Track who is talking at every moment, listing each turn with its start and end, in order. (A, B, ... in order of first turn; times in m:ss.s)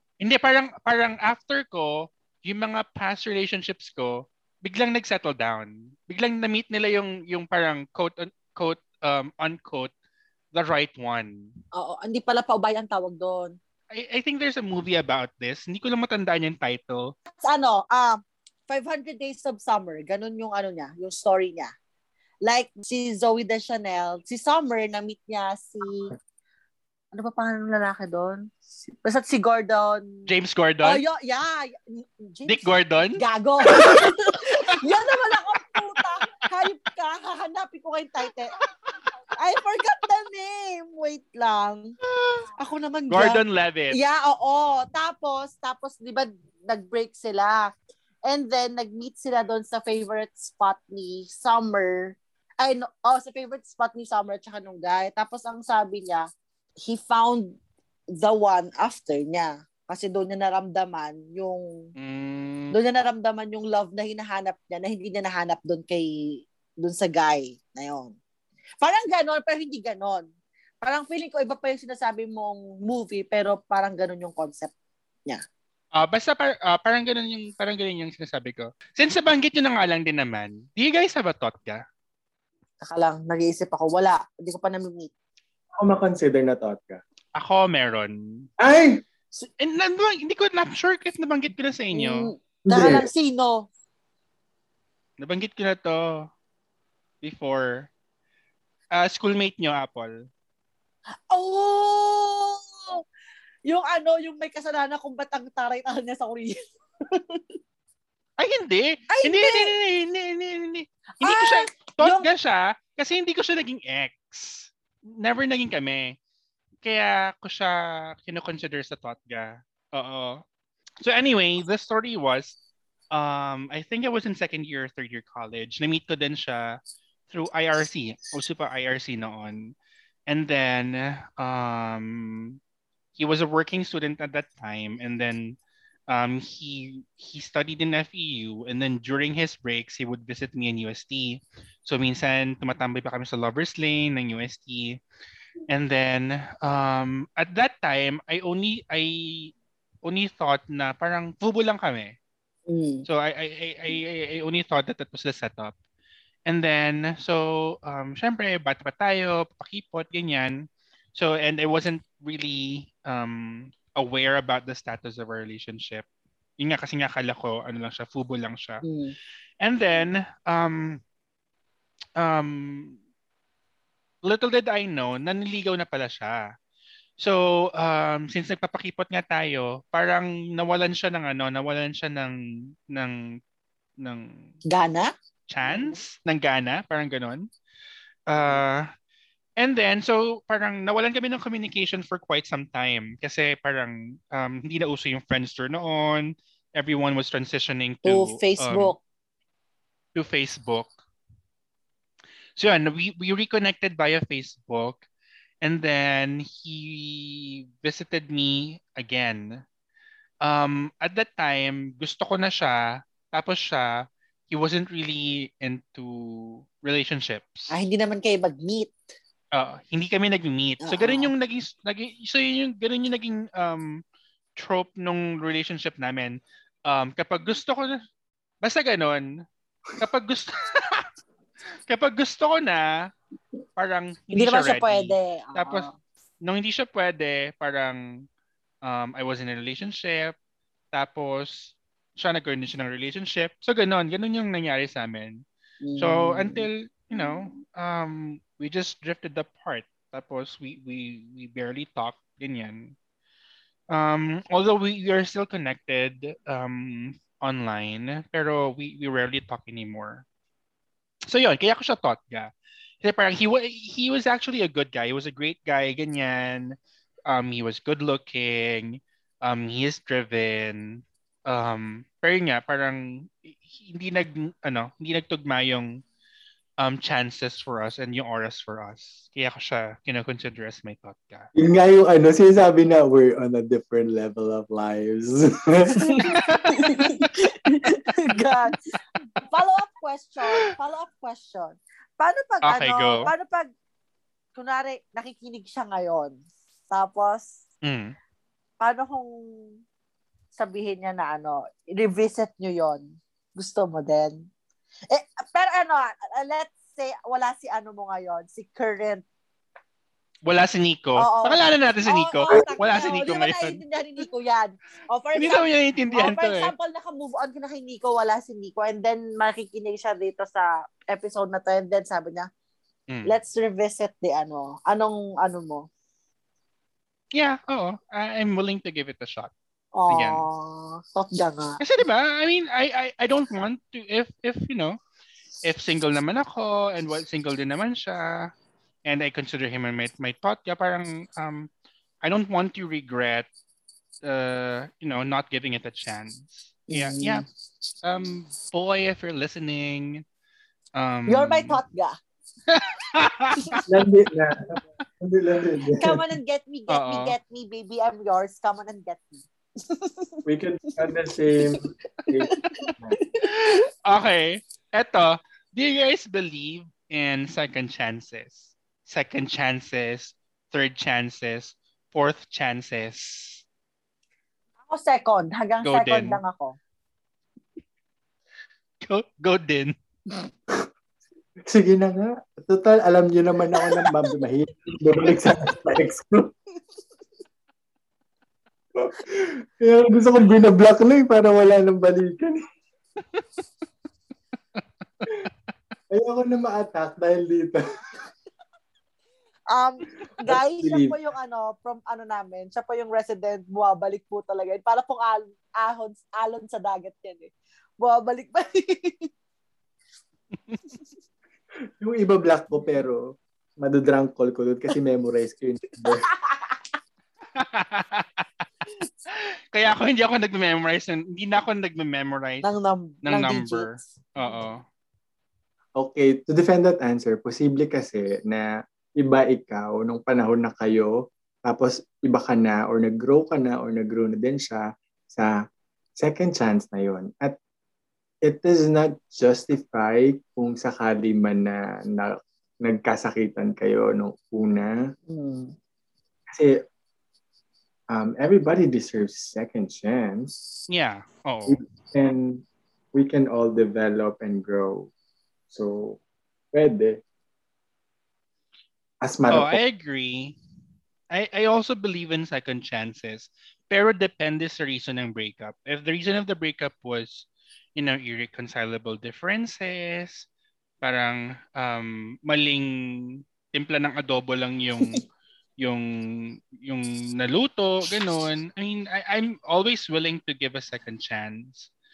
0:00.2-0:09.9 A
0:10.5-0:11.6 A
0:11.7-0:13.5 B
0:13.9-0:17.2 A
0:17.4-0:21.7 B
0:22.4-0:26.1 B
0:27.1-0:30.1 B
0:30.2-0:31.0 A
0:30.8-0:38.6 B
0:32.4-0:33.2 A
0:39.4-0:41.9 B
0:42.1-0:42.5 A
0:42.6-0:47.7 B
0:43.1-0:44.0 A
0:48.2-0:56.2 B
0:56.8-0:57.6 B
0:58.2-1:01.9 B
1:02.0-1:02.7 A
1:02.7-1:08.2 B
1:08.8-1:10.3 B
1:10.8-1:14.7 B
1:15.9-1:21.8 A
1:22.8-1:25.1 B
1:25.8-1:27.0 C
1:27.3-1:28.5 A
1:28.6-1:29.0 C
1:29.6-1:32.3 A
1:31.9-1:33.7 B
1:32.7-1:33.1 C
1:35.2-1:36.3 A
1:37.2-1:37.9 A
1:38.9-1:40.2 A
1:41.3-1:43.0 B
1:43.7-1:46.6 B
1:47.1-1:47.4 B
1:48.4-1:56.2 A
1:49.1-1:49.7 B
1:51.2-1:52.3 B
1:56.8-2:00.4 A
2:01.0-2:02.6 A
2:03.1-2:09.8 A
2:10.3-2:12.6 A
2:13.2-2:25.0 A
2:25.7-2:29.5 A
2:30.0-2:32.1 A
2:32.7-2:33.1 B
2:33.1-2:35.8 A
2:36.4-2:46.1 A
2:46.6-2:48.8 A
2:48.8-2:49.1 B
2:49.6-2:51.0 A
2:52.2-2:53.0 A
2:54.2-2:56.4 A
2:57.2-3:02.4 A
3:02.9-3:03.4 A
3:04.0-3:04.5 A
3:04.7-3:05.1 B
3:05.5-3:07.5 A
3:08.3-3:08.9 A
3:09.6-3:18.9 A
3:18.0-3:19.0 B
3:20.1-3:20.9 A
3:22.6-3:25.0 A
3:25.6-3:29.6 A
3:30.4-3:37.7 A
3:37.7-3:38.9 B
3:39.5-3:44.0 A
3:40.8-3:41.3 B
3:44.6-3:48.0 A
3:48.6-3:49.4 A
3:50.0-3:51.1 A
3:51.9-3:53.1 A
3:53.8-3:55.9 A
3:54.3-3:55.9 B
3:56.4-3:58.3 A
3:58.8-4:00.4 A
4:00.9-4:05.4 A
4:05.8-4:06.7 B
4:06.0-4:13.0 A
4:13.9-4:20.2 A
4:21.3-4:22.5 A
4:23.0-4:36.0 A
4:36.8-4:41.5 A
4:41.6-4:46.3 C
4:45.9-4:48.8 B
4:46.4-4:47.3 A
4:49.4-4:53.7 B
4:52.6-4:53.3 A
4:54.6-4:56.4 B
4:56.9-4:57.6 B
4:57.8-4:58.2 A
4:58.8-4:59.3 B
5:00.6-5:04.5 B
5:05.1-5:09.2 B
5:10.4-5:13.8 A
5:11.2-5:22.5 B
5:15.3-5:16.7 A
5:23.1-5:23.3 A
5:23.3-5:25.9 B
5:27.3-5:29.5 A
5:29.9-5:31.8 B
5:30.1-5:30.4 A
5:31.8-5:35.0 A
5:35.6-5:38.5 A
5:39.0-5:41.7 A
5:42.2-5:43.5 A
5:44.2-5:47.4 A
5:46.9-5:47.4 B
5:48.0-5:50.2 A
5:50.9-5:51.8 A
5:51.3-5:52.2 B
5:52.7-5:53.8 A
5:53.8-5:56.2 C
5:56.0-6:00.4 B
5:56.9-5:57.4 A
6:00.4-6:03.2 C
6:02.4-6:03.8 B
6:03.4-6:13.6 A
6:14.9-6:16.8 B
6:15.8-6:16.4 A
6:19.0-6:19.9 A
6:21.7-6:26.5 C
6:29.0-6:32.6 C
6:36.1-6:38.2 C
6:39.7-6:49.3 B
6:40.4-6:41.2 C
6:52.0-6:53.2 C
6:53.8-6:56.3 C
6:56.5-6:56.8 B
6:57.6-6:58.4 A
6:59.7-7:02.7 A
7:02.6-7:04.1 B
7:03.2-7:04.8 A
7:06.0-7:08.7 C
7:09.2-7:11.1 C
7:11.6-7:15.5 C
7:16.2-7:17.6 C
7:18.4-7:25.0 C
7:25.3-7:25.7 B
7:26.5-7:26.8 C
7:28.1-7:30.6 C
7:30.9-7:31.8 A
7:31.7-7:35.1 C
7:35.7-7:36.2 C
7:36.7-7:37.2 C
7:39.2-7:39.8 C
7:39.5-7:40.6 A
7:41.3-7:50.5 A
7:51.0-7:55.3 A
7:55.8-8:01.9 A